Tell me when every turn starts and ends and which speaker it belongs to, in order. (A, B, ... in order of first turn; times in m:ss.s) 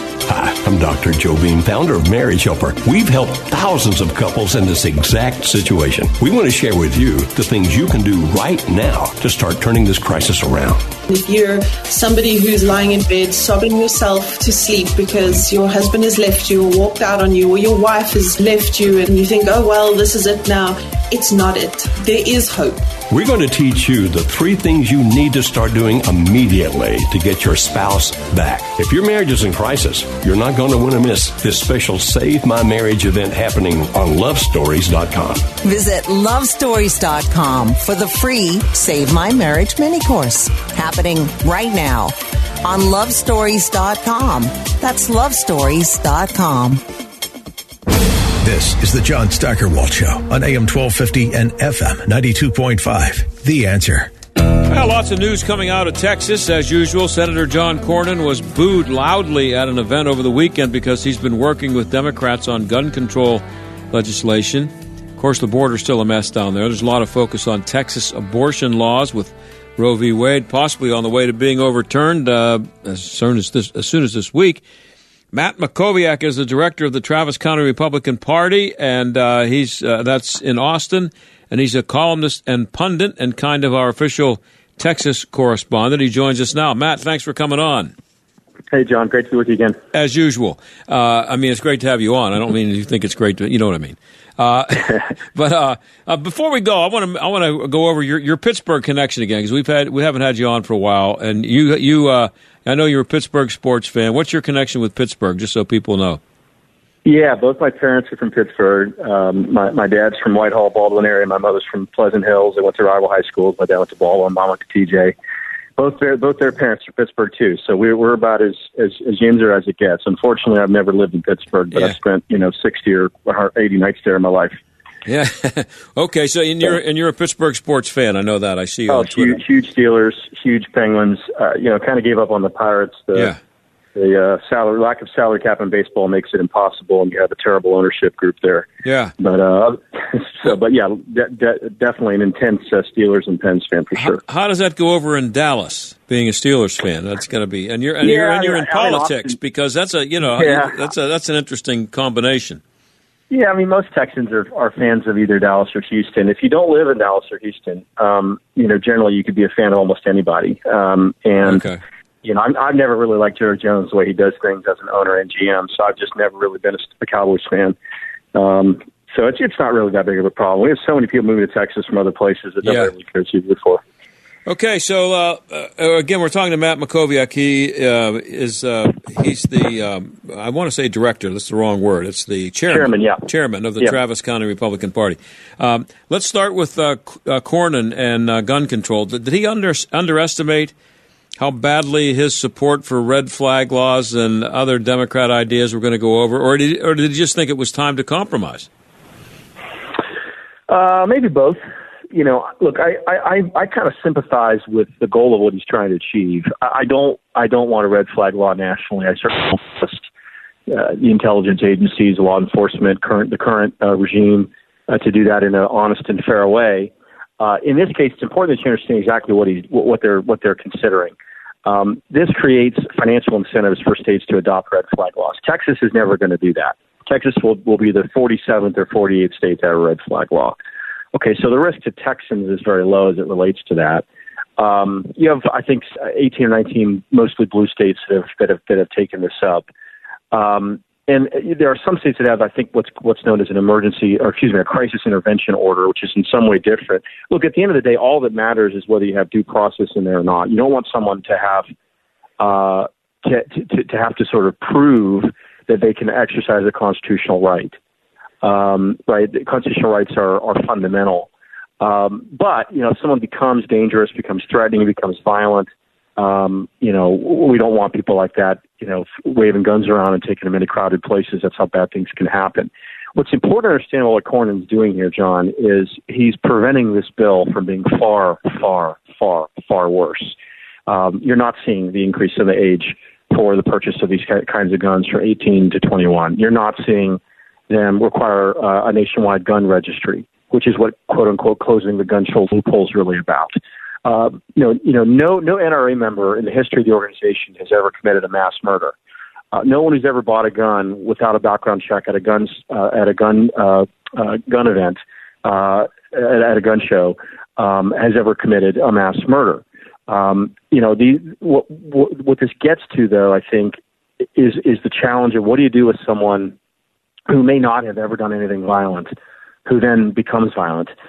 0:00.3-0:10.8 A
0:11.1-0:22.9 B
0:23.1-0:35.5 A
0:35.6-0:46.8 C
0:48.4-0:54.1 D
0:54.7-1:14.6 E
1:15.3-1:27.9 E
1:28.7-1:29.8 F
1:29.9-1:46.2 E
1:47.0-1:55.1 F
1:55.8-2:04.6 F
2:05.0-2:09.4 E
2:08.9-2:13.3 F
2:13.9-2:18.7 F
2:18.8-2:19.1 E
2:19.2-2:24.2 F
2:23.9-2:32.6 E
2:28.0-2:29.4 F
2:30.4-2:30.8 F
2:33.3-2:41.7 F
2:41.4-2:41.8 E
2:42.2-2:47.8 F
2:48.3-2:53.8 F
2:52.6-2:52.9 E
2:54.4-3:10.7 E
3:02.7-3:03.2 F
3:11.4-3:18.7 E
3:20.7-3:21.6 F
3:22.1-3:30.0 F
3:30.7-3:41.1 F
3:41.6-3:50.6 F
3:51.1-3:54.0 F
3:54.6-3:59.6 F
4:00.3-4:11.7 F
4:12.4-4:17.8 F
4:18.4-4:21.3 F
4:21.8-4:40.3 F
4:40.9-4:58.9 F
4:59.5-5:13.8 F
5:14.3-5:16.5 F
5:17.3-5:19.1 F
5:19.6-5:20.9 F